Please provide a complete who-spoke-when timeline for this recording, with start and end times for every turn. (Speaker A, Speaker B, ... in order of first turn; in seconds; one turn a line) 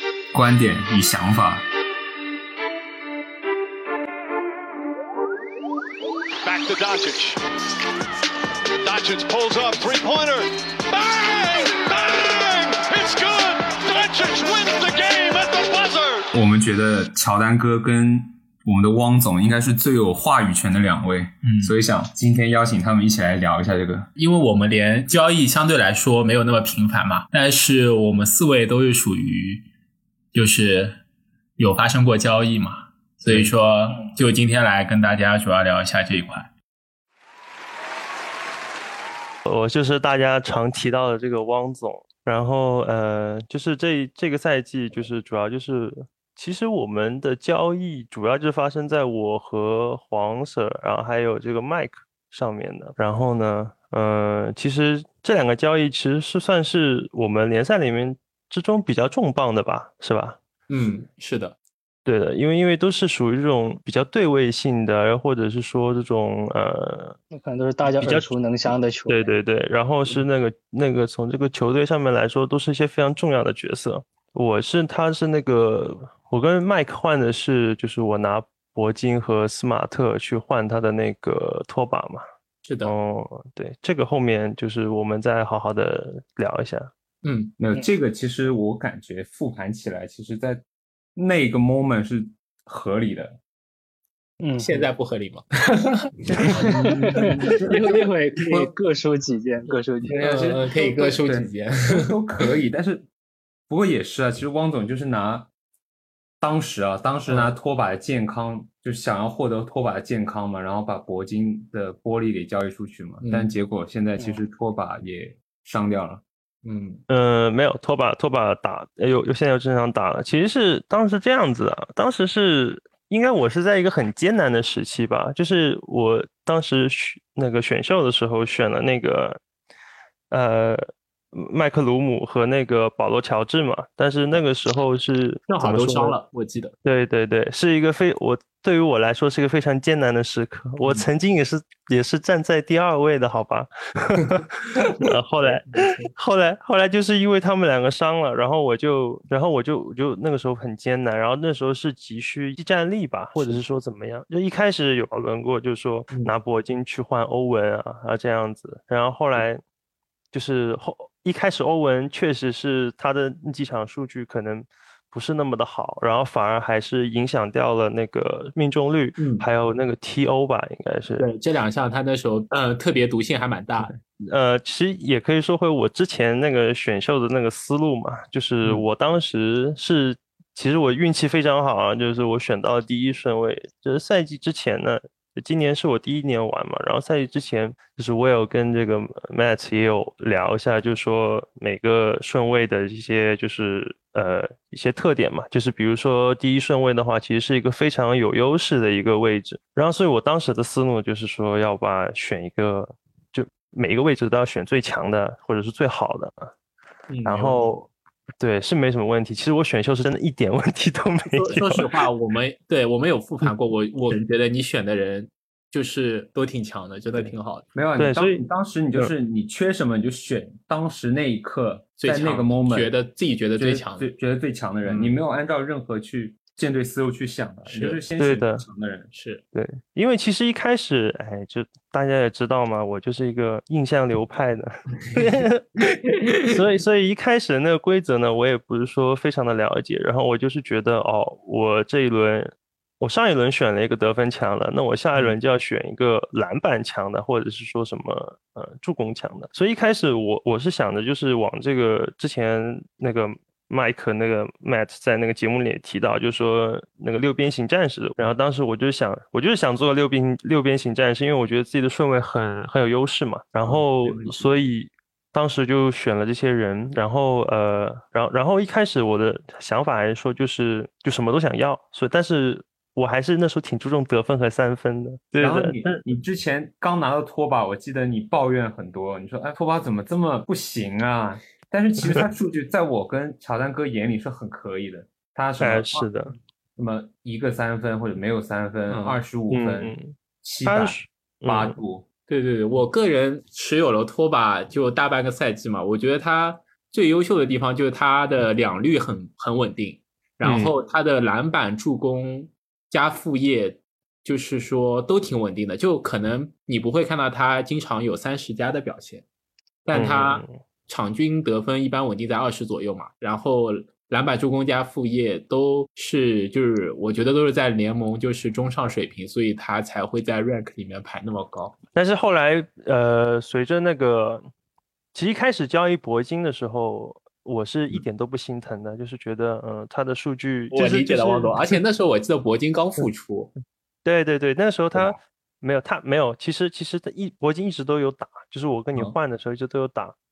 Speaker A: 0.3-1.7
Speaker B: 6.4-7.4
Speaker B: 8.8-16.3
Speaker A: 16.3-24.1
Speaker C: 21.4-21.7
Speaker C: 24.2-29.7
Speaker C: 30.3-31.0
Speaker C: 31.6-36.5
Speaker D: 39.5-60.4
Speaker C: 60.7-61.5
Speaker D: 62.1-67.2
Speaker E: 67.3-69.3
Speaker D: 68.0-68.3
Speaker D: 69.1-82.2
Speaker C: 82.7-82.9
Speaker D: 82.8-86.9
Speaker C: 87.2-87.5
Speaker A: 87.6-90.6
Speaker A: 91.2-93.4
Speaker E: 94.4-94.9
Speaker C: 94.6-97.7
Speaker A: 96.3-97.8
Speaker E: 96.8-100.3
Speaker A: 100.0-103.1
Speaker C: 100.2-102.5
Speaker A: 103.7-105.5
Speaker A: 106.4-116.2
Speaker C: 107.3-107.6
Speaker C: 113.2-113.5
Speaker C: 114.2-114.4
Speaker C: 116.6-117.0
Speaker D: 117.1-129.4
Speaker D: 130.3-136.2
Speaker C: 135.5-136.8
Speaker D: 136.8-159.6
Speaker C: 145.4-146.1
Speaker D: 160.3-171.3
Speaker C: 169.2-169.5
Speaker C: 171.2-173.9
Speaker D: 174.3-206.5
Speaker C: 207.1-207.7
Speaker D: 207.2-211.9
Speaker C: 211.4-217.6
Speaker A: 217.2-222.9
Speaker D: 218.0-219.1
Speaker C: 222.0-224.1
Speaker A: 223.6-229.1
Speaker C: 224.8-225.2
Speaker C: 227.7-228.0
Speaker D: 228.2-228.7
Speaker C: 229.1-229.4
Speaker D: 229.5-276.0
Speaker C: 263.7-264.5
Speaker A: 275.4-286.1
Speaker D: 285.6-286.4
Speaker A: 286.8-292.1
Speaker C: 288.9-289.2
Speaker D: 289.5-291.8
Speaker C: 292.3-309.2
Speaker D: 300.4-300.7
Speaker C: 309.9-321.8
Speaker D: 309.9-310.6
Speaker D: 321.9-324.5
Speaker D: 325.1-331.6
Speaker C: 330.7-333.5
Speaker D: 334.1-340.2